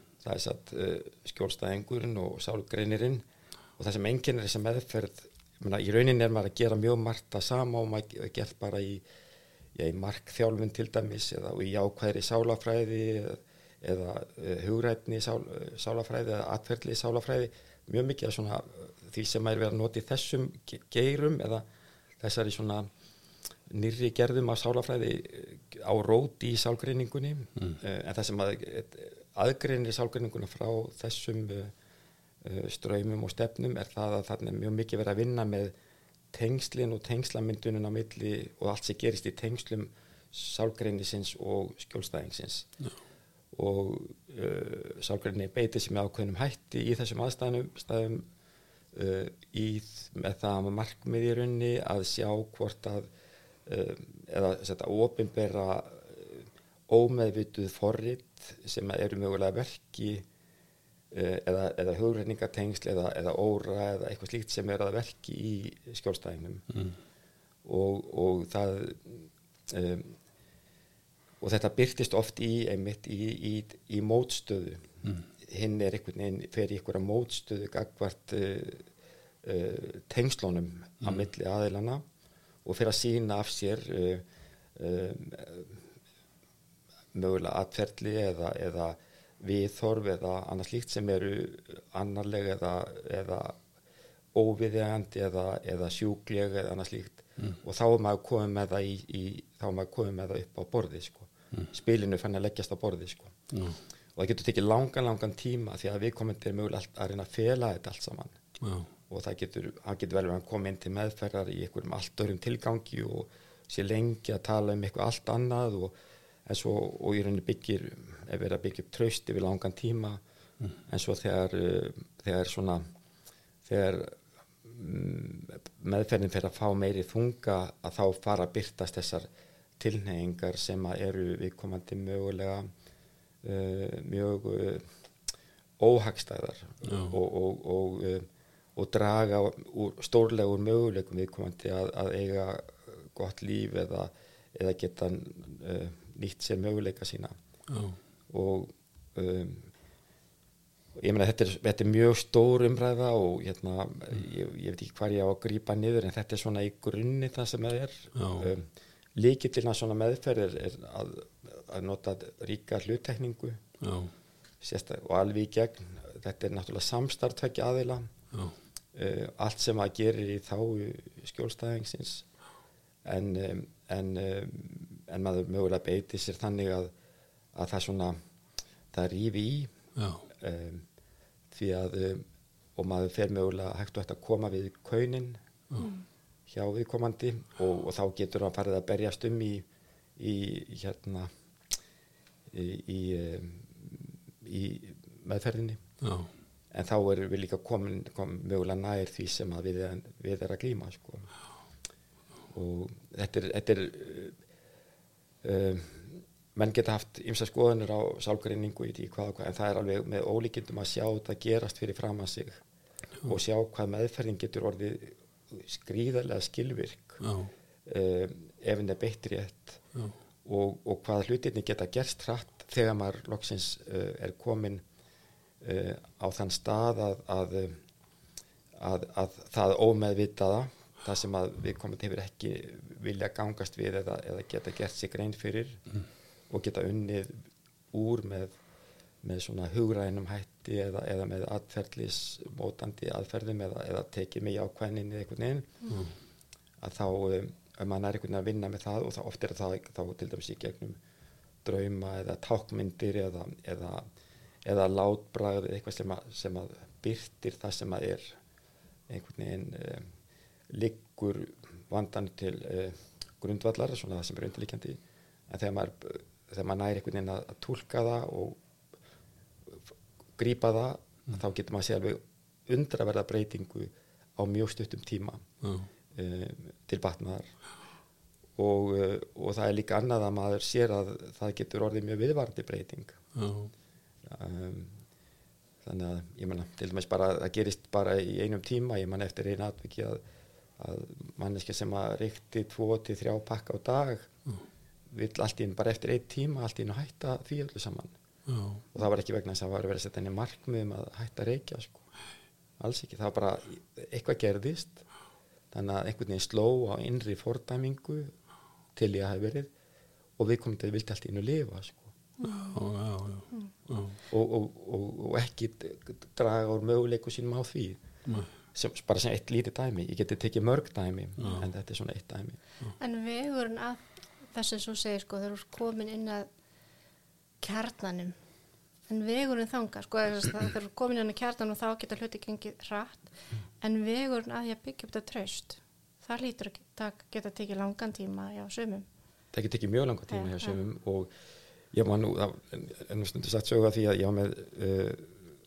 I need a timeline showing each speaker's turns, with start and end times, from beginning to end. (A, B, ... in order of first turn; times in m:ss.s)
0:00.2-0:03.2 A
0:03.8-0:09.0 A
0:09.8-0:21.6 A
0:22.2-0:22.9 A
0:23.7-0:31.7 A
0:32.4-0:35.7 A
0:36.3-0:42.7 A
0:43.5-0:48.2 A
0:48.9-0:53.1 A
0:53.7-1:00.2 A
1:01.1-1:06.7 A
1:07.6-1:10.2 A
1:11.4-1:14.9 A
1:15.4-1:18.9 A
1:19.4-1:22.0 A
1:22.6-1:24.2 A
1:24.8-1:25.8 A
1:27.1-1:33.6 A
1:34.4-1:43.3 A
1:43.5-1:43.8 B
1:44.2-1:48.3 A
1:48.6-1:48.9 B
1:49.1-1:55.9 A
1:56.5-2:00.2 A
2:00.9-2:02.9 A
2:03.6-2:09.3 A
2:09.8-2:12.7 A
2:13.4-2:14.9 A
2:15.8-2:27.4 A
2:27.7-2:28.0 B
2:28.3-2:29.7 A
2:31.0-2:43.6 A
2:38.2-2:38.5 B
2:43.8-2:44.1 B
2:44.6-2:48.1 A
2:49.0-2:52.2 A
2:53.0-2:56.9 A
2:57.5-2:58.2 A
2:58.9-2:59.7 A
3:00.0-3:00.2 B
3:00.4-3:00.8 A
3:01.5-3:02.2 A
3:02.8-3:05.4 A
3:06.5-3:09.6 A
3:10.2-3:11.3 A
3:12.5-3:15.8 A
3:16.0-3:16.3 B
3:16.7-3:21.3 A
3:22.5-3:24.4 A
3:25.4-3:32.6 A
3:33.2-3:37.2 A
3:37.2-3:37.5 B
3:37.9-3:39.8 A
3:40.4-3:44.8 A
3:45.6-3:47.8 A
3:48.8-3:55.8 A
3:56.5-3:57.4 A
3:57.9-3:58.6 A
3:59.2-4:05.7 A
4:06.8-4:11.0 A
4:11.6-4:14.0 A
4:14.6-4:18.4 A
4:19.1-4:20.1 A
4:20.7-4:28.6 A
4:30.4-4:35.4 A
4:35.6-4:35.9 B
4:36.1-4:37.5 A
4:38.6-4:43.2 A
4:43.4-4:43.7 B
4:44.3-4:45.0 A
4:45.8-4:50.2 A
4:50.8-4:54.3 A
4:55.1-4:58.1 A
4:58.5-4:58.8 B
4:58.9-5:02.1 A
5:02.8-5:05.0 A
5:05.7-5:08.3 A
5:09.0-5:09.7 A
5:10.4-5:12.1 A
5:12.4-5:12.8 C
5:12.7-5:14.2 B
5:14.3-5:18.0 A
5:18.7-5:22.6 A
5:21.4-5:21.7 B
5:23.0-5:26.5 C
5:27.6-5:28.4 C
5:29.1-5:39.1 C
5:39.5-5:41.3 A
5:40.3-5:40.8 C
5:41.9-5:45.4 A